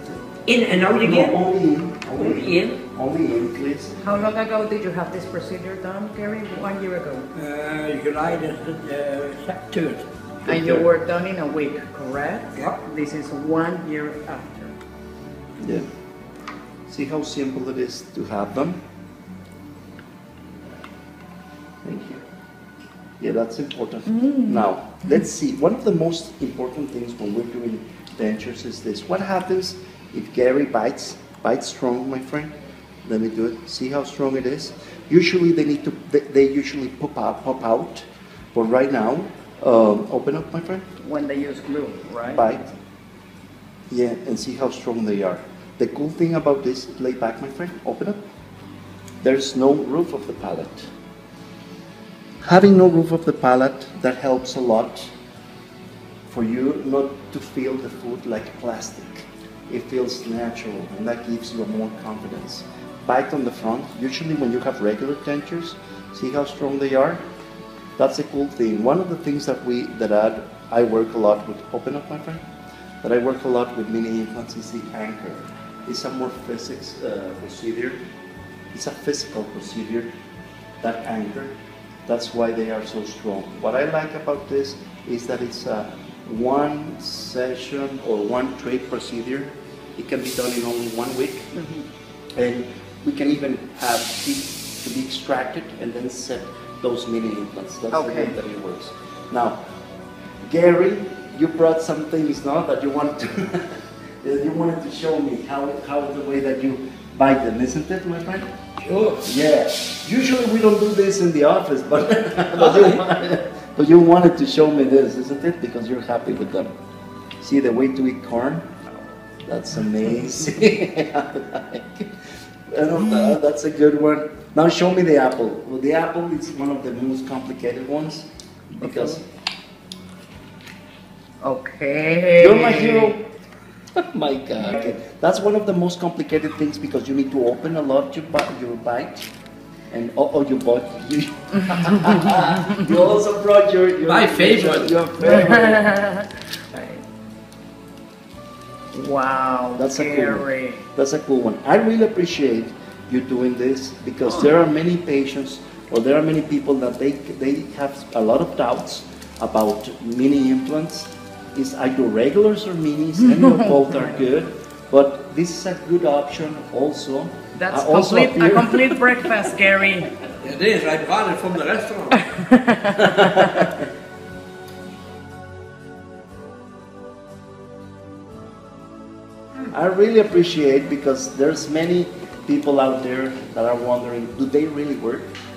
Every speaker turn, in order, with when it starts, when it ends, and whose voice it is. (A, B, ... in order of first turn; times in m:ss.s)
0:00.4-0:01.4 A
0:01.0-0:03.9 B
0:02.1-0:02.8 A
0:04.0-0:07.3 C
0:07.3-0:10.1 A
0:10.4-0:10.8 B
0:10.4-0:14.7 C
0:12.5-0:12.8 A
0:16.9-0:18.8 B
0:21.8-0:22.2 B
0:23.2-0:32.5 B
0:24.2-0:25.1 C
0:33.0-0:40.8 B
0:41.0-0:42.5 C
0:42.2-0:42.7 B
0:43.9-0:48.2 B
0:49.2-0:50.9 B
0:52.4-0:55.1 B
0:56.3-1:07.2 B
1:08.0-1:12.4 B
1:13.0-1:18.0 B
1:18.7-1:20.1 B
1:20.8-1:21.5 B
1:22.0-1:31.5 B
1:31.5-1:31.8 C
1:32.4-1:39.6 B
1:37.9-1:38.4 C
1:40.4-1:48.5 B
1:48.8-1:49.3 A
1:49.2-1:56.7 B
1:52.6-1:53.0 A
1:57.4-1:58.7 B
1:59.4-2:02.1 B
2:02.7-2:09.2 B
2:08.8-2:09.2 C
2:11.4-2:13.2 C
2:12.4-2:13.2 B
2:13.9-2:19.3 B
2:14.6-2:14.9 C
2:19.9-2:26.2 B
2:24.0-2:25.0 A
2:25.2-2:27.0 C
2:28.9-2:30.8 C
2:29.7-2:49.5 B
2:47.6-2:50.1 C
2:50.4-2:52.3 A
2:52.4-2:53.4 C
2:53.0-2:53.8 B
2:59.7-3:05.3 B